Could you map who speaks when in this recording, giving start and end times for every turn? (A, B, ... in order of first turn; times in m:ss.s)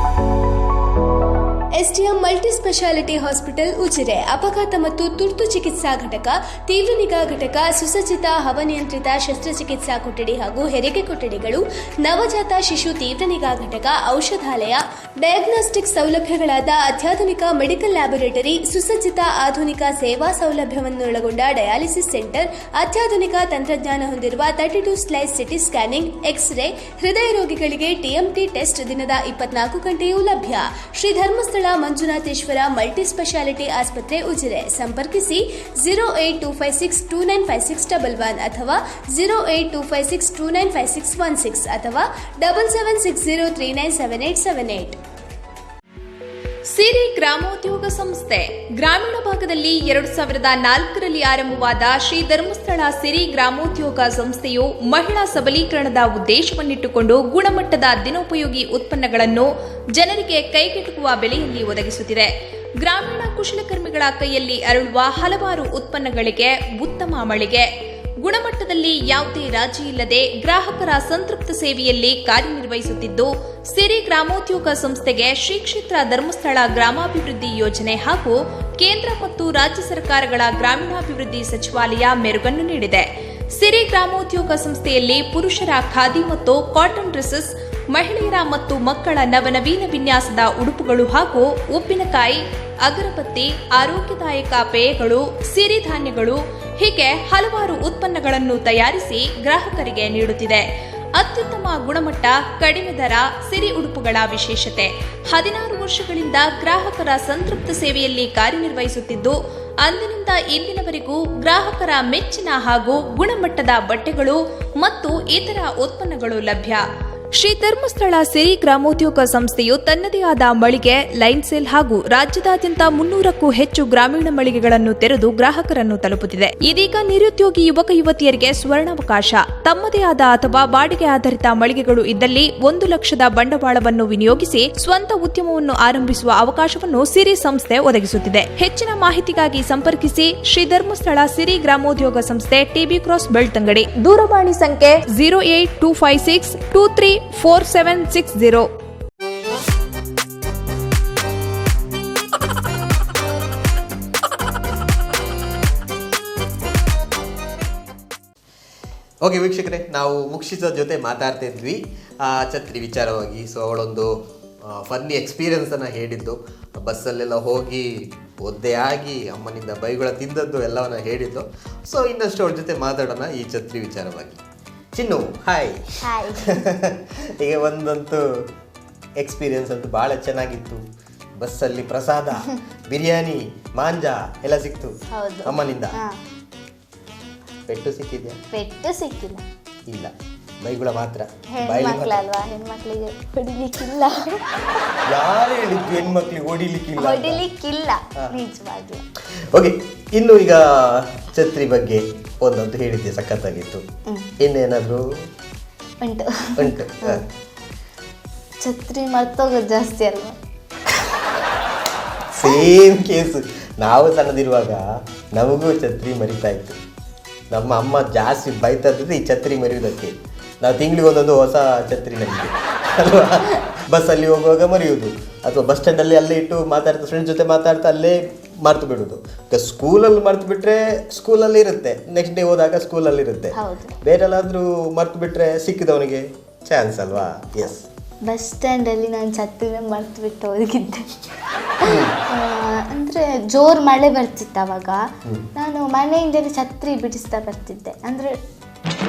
0:01.8-0:45.0 A
0:46.7-1:07.7 B
1:08.2-1:40.6 B
1:41.2-1:56.8 B
1:57.3-2:28.7 B
2:39.2-2:44.1 C
2:44.6-2:54.4 C
2:54.9-2:58.2 C
2:56.0-2:56.6 D
2:59.2-3:00.8 C
3:01.4-3:05.9 C
3:05.1-3:06.2 D
3:07.7-3:08.4 C
3:08.5-3:09.4 D
3:09.9-3:12.2 C
3:11.5-3:14.4 D
3:15.1-3:17.4 C
3:17.0-3:19.0 D
3:19.4-3:23.8 C
3:24.4-3:25.0 C
3:26.0-3:27.2 D
3:26.6-3:27.2 C
3:28.6-3:30.4 D
3:32.3-3:36.8 C
3:37.5-3:57.9 C
3:53.5-3:53.9 D
3:58.2-4:01.1 D
4:01.8-4:02.1 C
4:01.9-4:05.0 D
4:05.5-4:08.4 D